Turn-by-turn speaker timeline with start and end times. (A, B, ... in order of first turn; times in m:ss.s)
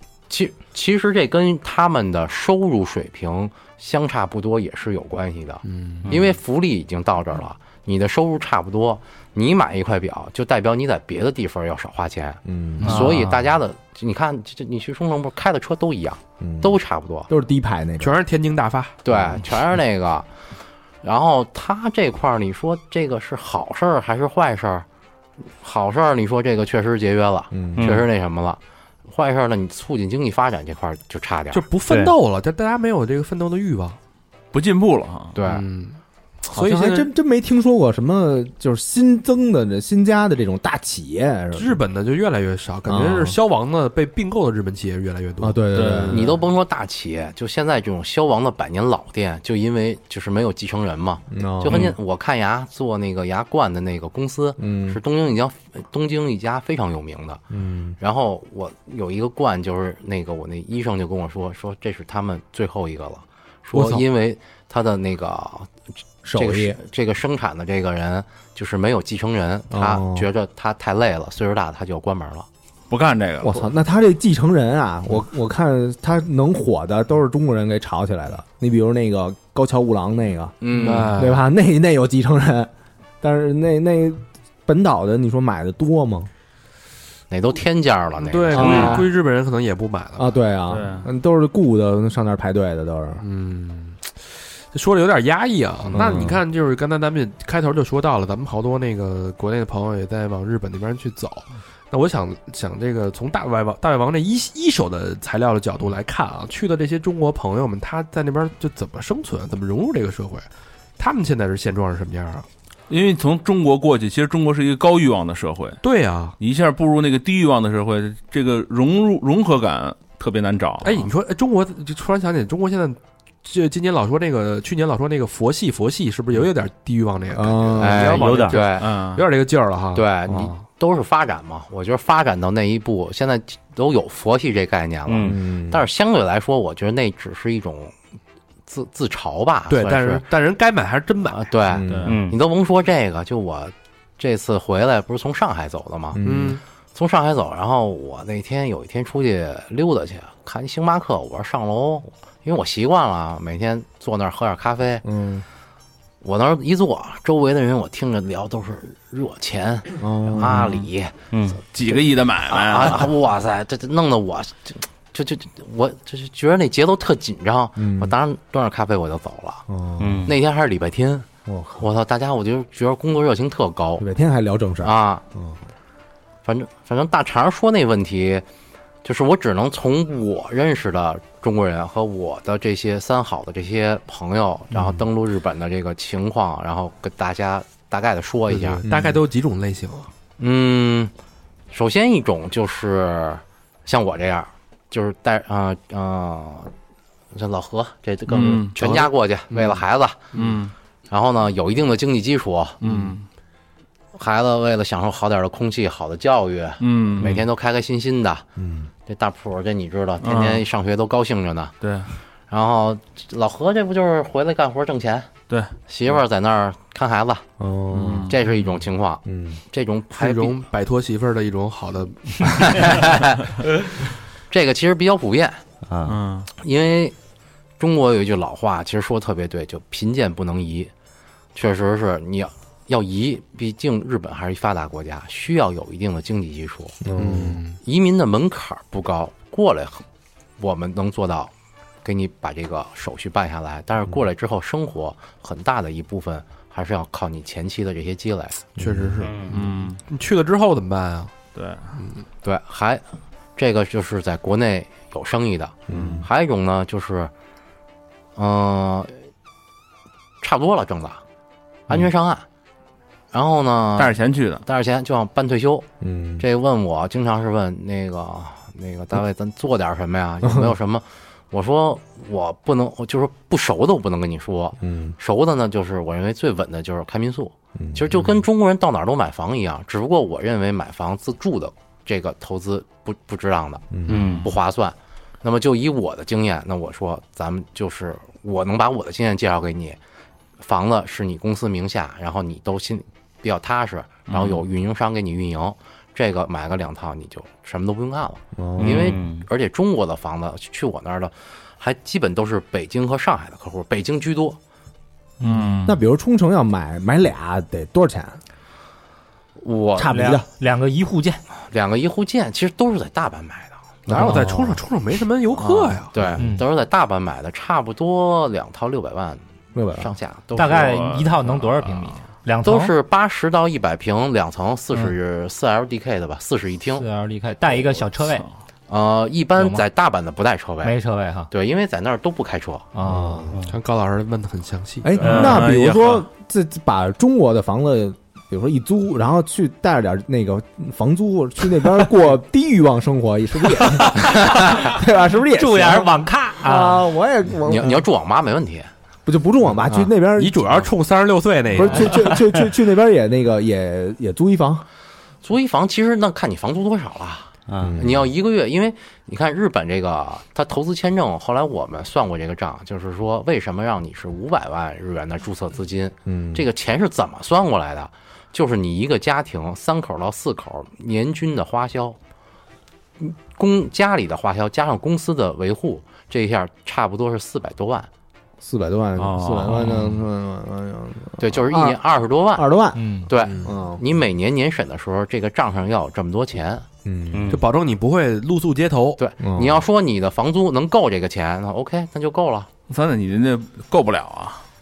0:00.3-0:17.3 A
0:05.6-0:06.1 B
0:06.0-0:06.3 C
0:12.4-0:13.1 D
0:12.8-0:13.1 B
0:12.8-0:13.3 E
0:16.4-0:16.8 D
0:17.3-0:18.2 D
0:18.0-0:19.0 B
0:19.0-0:20.3 A
0:19.1-0:19.4 D
0:21.0-0:24.8 A
0:25.6-0:31.6 A
0:27.5-0:27.9 D
0:27.8-0:28.1 C
0:31.5-0:34.0 B
0:31.9-0:32.1 C
0:34.5-0:35.4 F
0:35.3-0:35.6 A
0:35.4-0:37.1 B
0:36.5-0:41.8 D
0:41.5-0:46.3 B
0:42.8-0:43.4 D
0:45.4-0:46.3 D
0:45.7-0:46.3 F
0:46.1-0:57.4 A
0:51.3-0:51.9 D
0:54.6-0:55.0 D
0:57.5-0:58.0 D
0:58.0-1:05.7 A
1:03.8-1:04.0 D
1:06.2-1:06.8 D
1:06.3-1:12.5 A
1:09.7-1:10.3 D
1:12.9-1:13.6 F
1:13.4-1:26.3 D
1:20.6-1:21.2 A
1:20.7-1:21.4 B
1:27.3-1:29.0 A
1:28.2-1:30.4 B
1:28.5-1:29.0 C
1:28.5-1:29.0 D
1:30.2-1:33.2 D
1:30.7-1:31.1 F
1:33.2-1:34.1 B
1:34.7-1:50.4 B
1:35.9-1:36.4 D
1:51.0-1:52.4 B
1:52.9-1:55.8 F
1:55.8-1:56.4 B
1:56.4-2:01.0 F
2:00.8-2:10.6 B
2:07.3-2:08.2 D
2:07.8-2:08.8 A
2:08.0-2:08.6 C
2:08.7-2:09.2 F
2:09.9-2:17.9 A
2:15.1-2:15.4 C
2:15.2-2:15.8 D
2:18.7-2:20.2 A
2:19.7-2:21.5 B
2:21.3-2:26.2 A
2:21.7-2:22.1 D
2:21.8-2:22.2 F
2:22.0-2:22.4 C
2:26.1-2:26.6 D
2:26.2-2:26.6 B
2:26.9-2:35.0 A
2:35.0-2:35.4 D
2:36.2-2:41.2 A
2:40.0-2:40.8 D
2:41.3-2:41.6 C
2:41.6-2:43.1 F
2:42.5-2:49.6 A
2:47.8-2:48.1 D
2:49.7-2:50.3 D
2:50.0-2:50.3 C
2:50.2-2:51.2 A
2:51.4-2:51.8 D
2:51.8-2:54.0 A
2:54.0-2:55.6 D
2:54.8-2:55.2 A
2:56.4-2:58.4 A
2:59.0-3:08.8 A
3:04.7-3:05.0 D
3:08.5-3:10.1 B
3:08.8-3:09.2 D
3:10.4-3:11.1 A
3:11.7-3:16.7 A
3:17.3-3:20.2 A
3:18.3-3:19.0 F
3:19.5-3:19.8 B
3:20.3-3:20.6 B
3:20.3-3:20.7 F
3:21.1-3:22.8 A
3:22.8-3:23.2 F
3:24.1-3:28.4 A
3:26.8-3:27.4 F
3:28.6-3:28.9 D
3:29.0-3:31.7 A
3:30.2-3:30.6 F
3:31.8-3:32.1 F
3:32.5-3:35.3 A
3:35.9-3:37.4 A
3:37.6-3:38.3 D
3:37.9-3:38.4 F
3:38.3-3:40.6 A
3:39.2-3:39.6 D
3:40.1-3:43.1 B
3:42.6-3:43.4 A
3:44.5-3:45.6 A
3:45.9-3:46.2 C
3:46.1-3:46.5 F
3:46.6-3:47.1 A
3:47.8-3:50.9 A
3:51.5-3:57.0 A
3:57.0-3:57.6 D
3:57.2-3:57.8 B
3:57.8-4:00.0 A
4:00.6-4:01.5 A
4:02.0-4:08.6 A
4:08.8-4:09.2 D
4:08.8-4:11.3 B
4:09.2-4:09.5 C
4:09.5-4:10.0 F
4:11.5-4:12.0 F
4:12.0-4:12.2 B
4:12.4-4:13.0 A
4:13.6-4:17.3 A
4:15.9-4:16.2 D
4:15.9-4:16.2 B
4:18.4-4:19.1 A
4:20.4-4:21.2 A
4:21.9-4:22.4 A
4:23.3-4:25.9 A
4:24.0-4:24.6 F
4:26.0-4:26.4 D
4:26.4-4:43.8 A
4:30.4-4:30.7 D
4:34.8-4:35.2 D
4:37.8-4:38.2 D
4:43.9-4:44.2 D
4:44.1-4:44.5 C
4:44.1-4:44.4 F
4:44.4-4:50.0 A
4:50.6-5:04.6 A
4:54.3-4:54.6 F
4:58.6-4:59.1 D
4:58.8-4:59.4 C
5:05.4-5:06.0 F
5:05.4-5:05.7 E
5:05.8-5:08.4 D
5:09.6-5:10.3 A
5:10.0-5:10.4 D
5:10.1-5:11.4 E
5:11.7-5:13.8 A
5:14.0-5:14.8 D
5:14.1-5:16.1 B
5:15.5-5:19.4 A
5:16.4-5:16.6 E
5:19.7-5:20.1 D
5:19.9-5:21.1 A
5:20.5-5:22.9 E
5:20.7-5:22.2 F
5:22.6-5:27.0 A
5:27.0-5:28.4 E
5:28.9-5:30.9 A
5:30.8-5:31.5 E
5:31.5-5:32.8 A
5:32.9-5:33.5 E
5:33.0-5:33.5 D
5:33.7-5:35.2 B
5:35.0-5:48.0 D
5:35.2-5:36.2 F
5:35.2-5:35.6 C
5:44.2-5:44.8 E
5:45.5-5:47.1 E
5:47.6-5:48.9 A
5:49.2-5:50.8 D
5:50.3-5:52.4 B
5:51.7-5:54.8 D
5:55.4-6:12.2 A
5:57.7-5:58.0 C
5:57.8-5:58.3 D
6:06.2-6:06.6 D
6:13.2-6:18.1 A
6:18.6-6:22.0 D
6:19.2-6:20.2 F
6:21.4-6:22.7 A
6:22.5-6:24.0 D
6:22.9-6:23.3 E
6:23.3-6:26.8 A
6:23.4-6:23.7 B
6:27.0-6:27.6 D
6:27.3-6:27.6 C
6:27.5-6:29.2 B
6:29.2-6:32.7 A
6:29.4-6:29.8 D
6:32.9-6:34.6 F